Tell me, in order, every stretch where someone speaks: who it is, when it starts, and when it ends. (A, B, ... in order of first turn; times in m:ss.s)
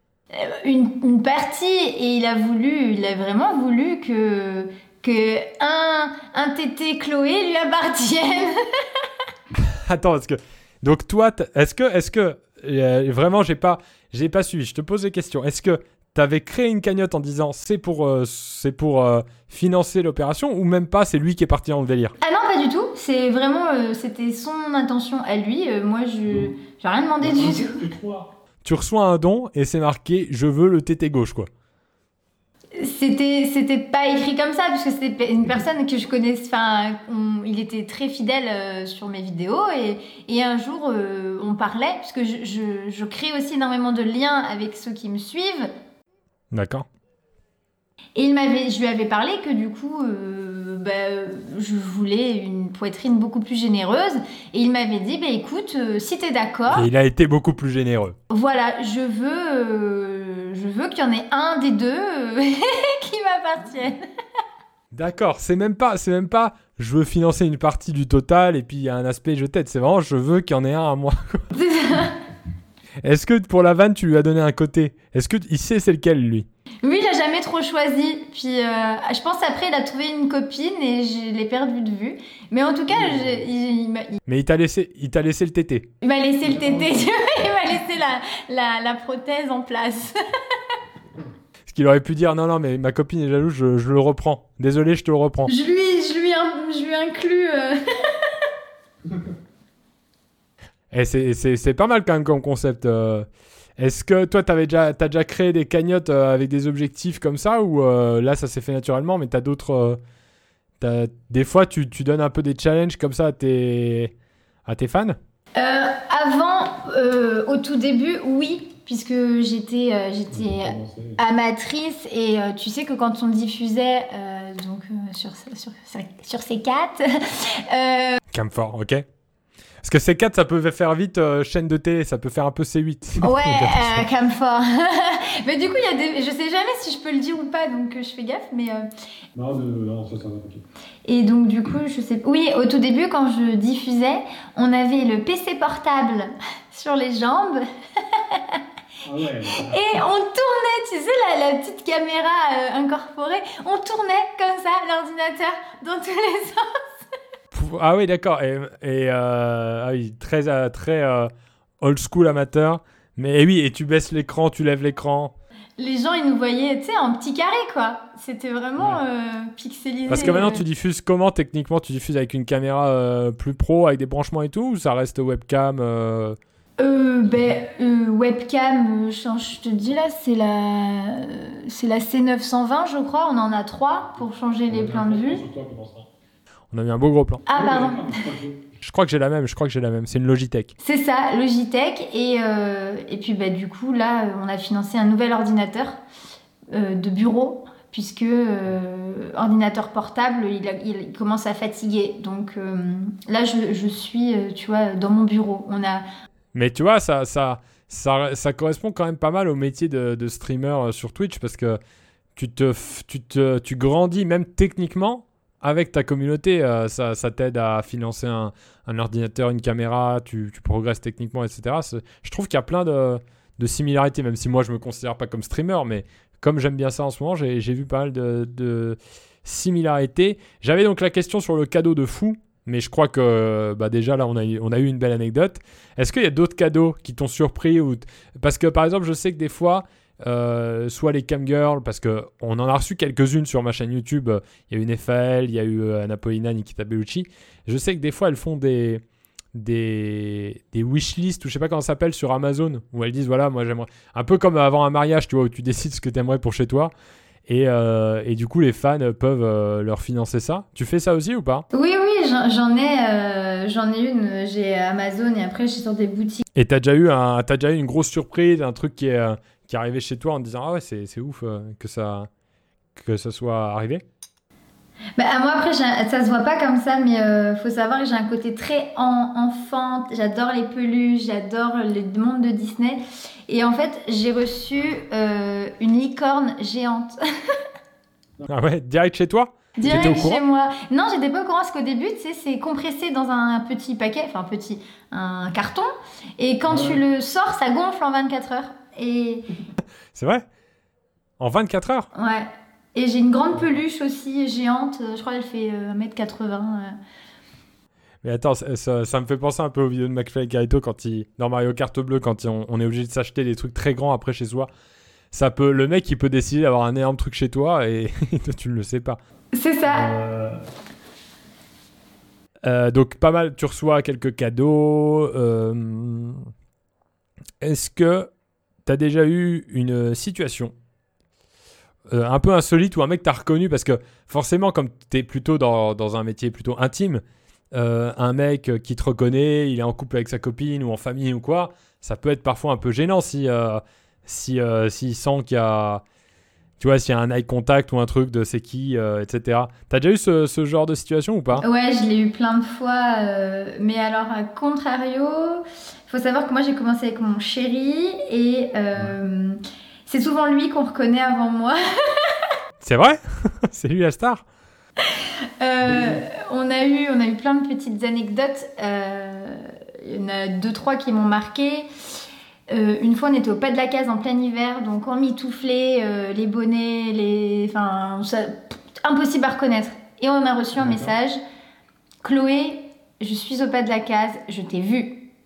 0:00.3-0:09.0 A
0:09.6-0:22.1 B
0:22.2-0:27.9 A
0:27.2-0:28.3 C
0:28.6-0:31.5 B
0:32.8-0:45.7 A
0:46.5-0:46.9 B
0:48.2-0:56.9 A
0:56.7-0:58.2 B
0:58.3-1:04.0 A
1:04.9-1:11.5 B
1:11.5-1:12.2 A
1:13.0-1:16.5 B
1:16.8-1:24.2 A
1:23.0-1:23.4 C
1:24.2-1:25.9 B
1:26.0-1:30.6 A
1:26.4-1:27.1 C
1:31.7-1:35.5 B
1:35.5-1:38.5 A
1:40.9-1:43.3 B
1:43.8-1:50.0 B
1:50.8-1:54.1 B
1:54.6-1:55.2 B
1:55.6-2:08.2 A
2:00.3-2:01.2 C
2:08.3-2:09.0 B
2:09.8-2:14.0 B
2:13.2-2:18.9 A
2:19.3-2:20.6 C
2:21.0-2:28.6 A
2:29.0-2:29.9 C
2:29.5-2:36.7 A
2:37.5-2:45.3 B
2:45.8-2:50.6 A
2:50.1-2:56.4 B
2:56.8-3:05.4 A
3:04.7-3:06.1 C
3:06.7-3:07.4 B
3:07.4-3:08.2 A
3:07.5-3:08.6 C
3:08.8-3:10.7 B
3:10.8-3:16.0 A
3:16.7-3:26.0 A
3:26.5-3:31.8 B
3:32.4-4:09.0 B
4:09.5-4:16.9 B
4:17.5-4:21.6 B
4:21.7-4:26.4 A
4:26.5-4:32.3 B
4:33.0-4:34.0 B
4:35.2-4:47.6 A
4:48.5-4:50.4 B
4:49.8-4:59.4 A
4:49.8-4:50.3 C
4:56.7-4:57.0 C
5:00.1-5:00.4 B
5:01.4-5:02.1 B
5:02.1-5:07.0 A
5:08.2-5:14.7 B
5:15.3-5:19.2 B
5:19.5-5:20.1 A
5:19.9-5:20.6 C
5:22.6-5:26.5 B
5:27.6-5:28.3 B
5:28.8-5:30.7 B
5:32.1-5:37.2 B
5:37.7-5:46.0 B
5:46.8-5:51.6 B
5:51.6-6:02.5 A
6:02.8-6:04.4 B
6:05.0-6:21.4 A
6:22.2-6:25.3 A